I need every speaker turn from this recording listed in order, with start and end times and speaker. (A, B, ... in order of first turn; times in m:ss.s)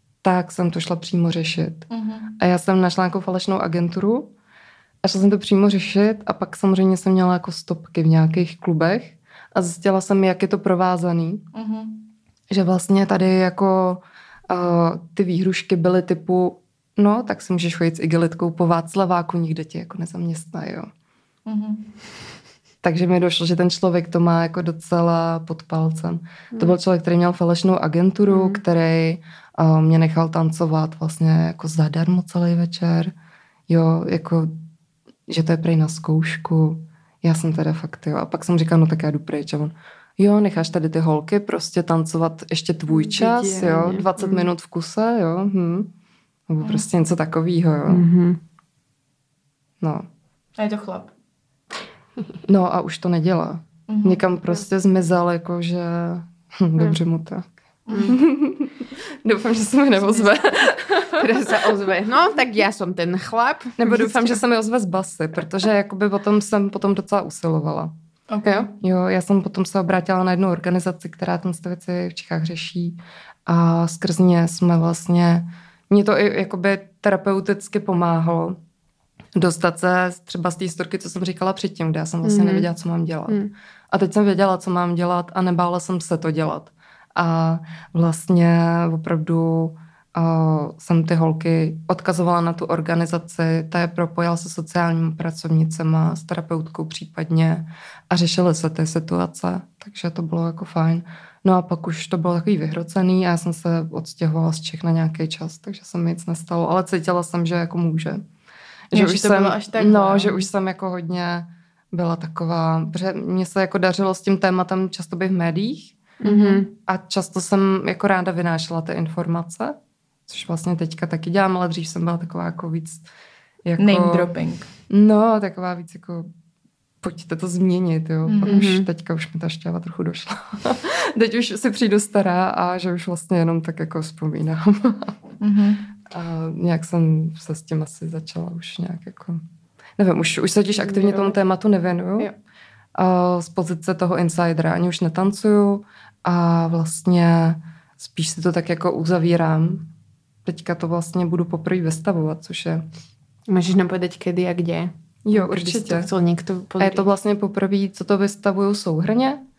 0:00.2-0:01.9 A
0:01.9-0:02.4 B
0:02.4-0:04.3 A
0:05.0-0:11.4 A
0:11.5-0:12.0 B
0:12.5-0:20.9 A
0:21.5-0:21.9 B
0:22.8-0:33.1 A
0:28.3-0:28.6 C
0:33.7-0:34.5 A
0:35.3-0:45.9 A
0:42.9-0:44.5 C
0:46.5-0:48.1 A
0:47.9-0:48.4 C
0:50.6-0:51.1 B
0:52.5-0:57.5 A
0:53.9-0:54.2 B
0:57.9-0:58.1 B
0:57.9-0:58.2 C
0:58.1-1:01.8 A
1:01.2-1:04.4 C
1:03.8-1:07.9 A
1:08.3-1:08.7 B
1:08.7-1:18.6 A
1:19.4-1:23.4 A
1:22.2-1:22.7 C
1:23.9-1:48.2 A
1:48.9-1:56.0 A
1:48.9-1:50.4 B
1:56.2-1:56.7 C
1:56.2-1:56.6 B
1:56.8-1:59.8 A
2:00.3-2:03.0 A
2:03.6-2:04.3 A
2:03.8-2:04.7 B
2:04.9-2:06.3 A
2:07.0-2:15.2 A
2:08.2-2:08.6 B
2:08.4-2:08.9 C
2:15.4-2:15.8 B
2:16.1-2:19.4 A
2:20.0-2:22.3 A
2:20.8-2:21.4 C
2:22.9-2:29.9 A
2:30.4-2:32.8 A
2:33.5-2:37.1 C
2:35.3-2:36.1 A
2:36.8-2:39.4 A